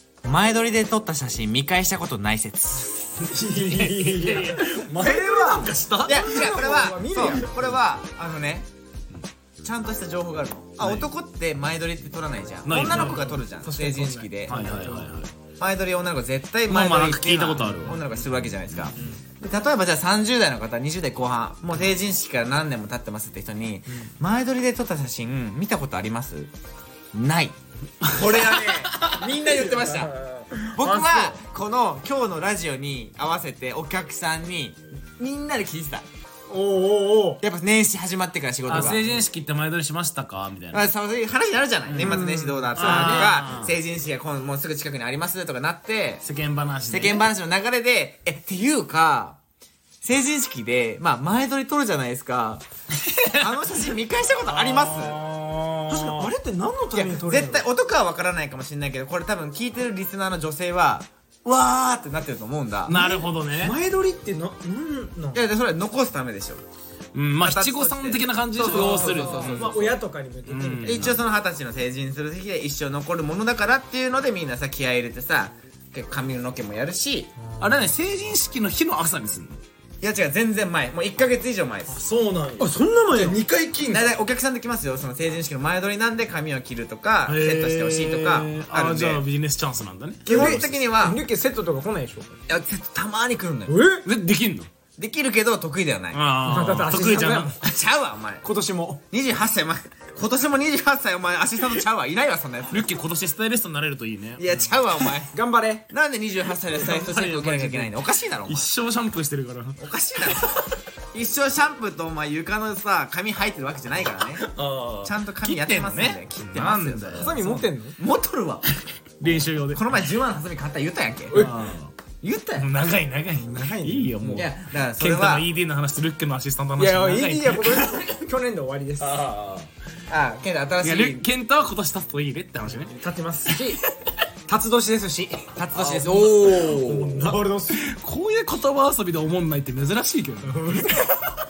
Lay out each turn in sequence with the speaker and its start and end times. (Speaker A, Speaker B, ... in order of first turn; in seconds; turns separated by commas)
Speaker A: 0.2-3.3, Speaker B: 3.2-7.5, Speaker C: 3.4-6.6, Speaker A: 6.0-8.7, Speaker C: 7.2-7.6, Speaker A: 9.6-14.6, Speaker C: 10.8-11.0, Speaker C: 12.7-13.3, Speaker B: 12.7-15.2, Speaker C: 14.5-15.3, Speaker A: 15.6-26.5, Speaker C: 16.7-18.0, Speaker B: 18.9-19.2, Speaker A: 27.1-30.1, Speaker C: 28.0-31.4, Speaker A: 30.7-36.0, Speaker B: 36.5-37.4, Speaker A: 37.4-39.1, Speaker C: 38.7-40.8, Speaker B: 38.7-39.1, Speaker A: 40.7-46.2, Speaker C: 41.9-42.1, Speaker B: 41.9-43.3, Speaker C: 42.7-43.7, Speaker C: 46.2-47.2, Speaker A: 46.9-49.4, Speaker A: 50.0-52.6, Speaker C: 53.0-53.5, Speaker A: 53.3-55.2, Speaker C: 54.4-56.3, Speaker B: 55.9-57.6, Speaker A: 56.9-63.0, Speaker C: 62.9-63.7, Speaker B: 62.9-65.4, Speaker A: 65.3-66.6, Speaker C: 67.1-69.8, Speaker A: 67.4-70.0, Speaker B: 68.6-71.1, Speaker C: 70.5-71.2, Speaker A: 70.8-77.3, Speaker B: 77.4-77.8, Speaker C: 77.6-79.6, Speaker A: 80.0-82.0, Speaker C: 81.9-84.1, Speaker B: 82.6-83.4, Speaker A: 83.8-89.2, Speaker C: 87.3-90.7, Speaker A: 90.2-91.2, Speaker B: 90.2-92.4, Speaker A: 92.5-93.8, Speaker B: 93.7-94.0, Speaker C: 94.0-94.7, Speaker A: 95.0-96.2, Speaker C: 96.1-97.6, Speaker B: 96.4-97.6, Speaker A: 97.6-98.4, Speaker B: 98.4-99.0, Speaker A: 99.1-102.9, Speaker C: 102.7-105.1, Speaker A: 104.4-105.3, Speaker B: 105.3-105.8, Speaker A: 105.9-108.7, Speaker C: 106.7-107.9, Speaker C: 108.4-109.8, Speaker A: 109.8-114.5, Speaker C: 110.3-110.6, Speaker C: 114.4-117.7, Speaker A: 115.0-117.4, Speaker B: 117.2-118.0, Speaker A: 118.0-118.7, Speaker C: 119.2-119.9, Speaker A: 119.7-121.5, Speaker B: 121.3-121.6, Speaker C: 121.3-121.9, Speaker A: 122.2-122.7, Speaker C: 122.6-128.1, Speaker B: 123.4-124.5, Speaker A: 124.3-125.5, Speaker B: 126.8-129.2, Speaker C: 129.0-129.7, Speaker A: 130.1-131.2, Speaker C: 130.8-132.9, Speaker B: 132.8-133.8, Speaker C: 133.5-133.8, Speaker B: 134.5-135.5, Speaker A: 135.6-137.3, Speaker C: 135.7-141.1, Speaker B: 136.7-137.8, Speaker B: 140.4-141.2